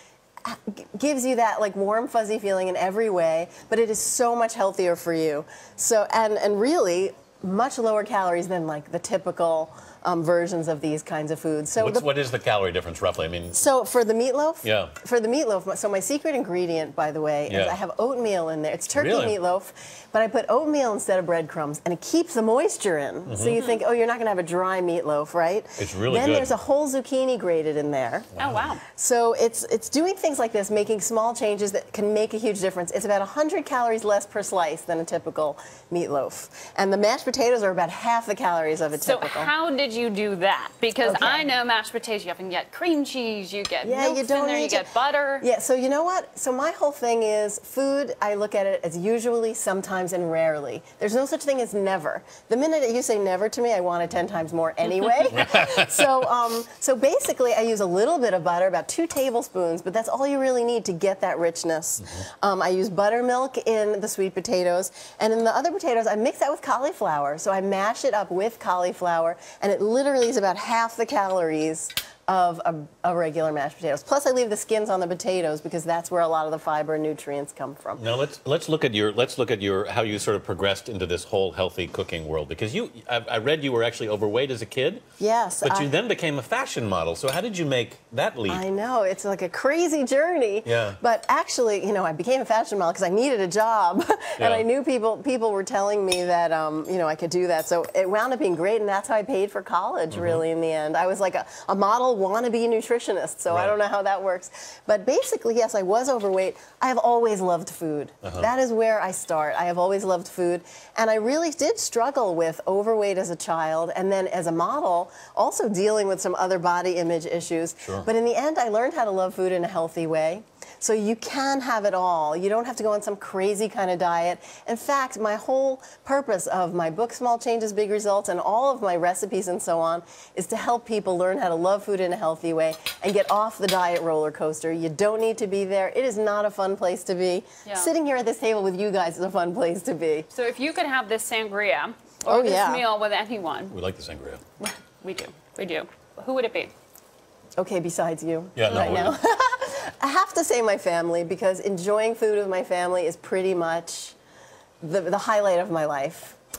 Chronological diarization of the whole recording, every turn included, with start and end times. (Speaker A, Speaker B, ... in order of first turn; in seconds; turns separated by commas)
Speaker A: 0.4-12.1, Speaker B: 11.8-13.6, Speaker A: 13.5-28.3, Speaker B: 14.6-14.9, Speaker B: 17.5-17.8, Speaker B: 18.9-19.4, Speaker B: 23.3-23.6, Speaker B: 25.8-26.6, Speaker B: 28.4-28.7, Speaker C: 28.4-28.8, Speaker A: 28.9-39.5, Speaker C: 39.0-45.5, Speaker A: 41.0-41.5, Speaker A: 43.8-44.9, Speaker A: 45.4-78.0, Speaker B: 55.3-56.1, Speaker B: 78.0-85.0, Speaker A: 85.2-85.9, Speaker B: 85.6-88.6, Speaker A: 88.5-140.3, Speaker B: 90.7-91.0, Speaker B: 94.4-94.7, Speaker B: 100.1-100.4, Speaker B: 103.5-103.8, Speaker B: 108.2-108.5, Speaker B: 117.8-118.1, Speaker C: 137.7-137.9, Speaker C: 140.3-143.8, Speaker A: 142.3-142.9, Speaker B: 143.7-144.4, Speaker C: 144.6-146.7, Speaker A: 147.6-154.2, Speaker B: 148.6-149.2, Speaker A: 154.8-156.4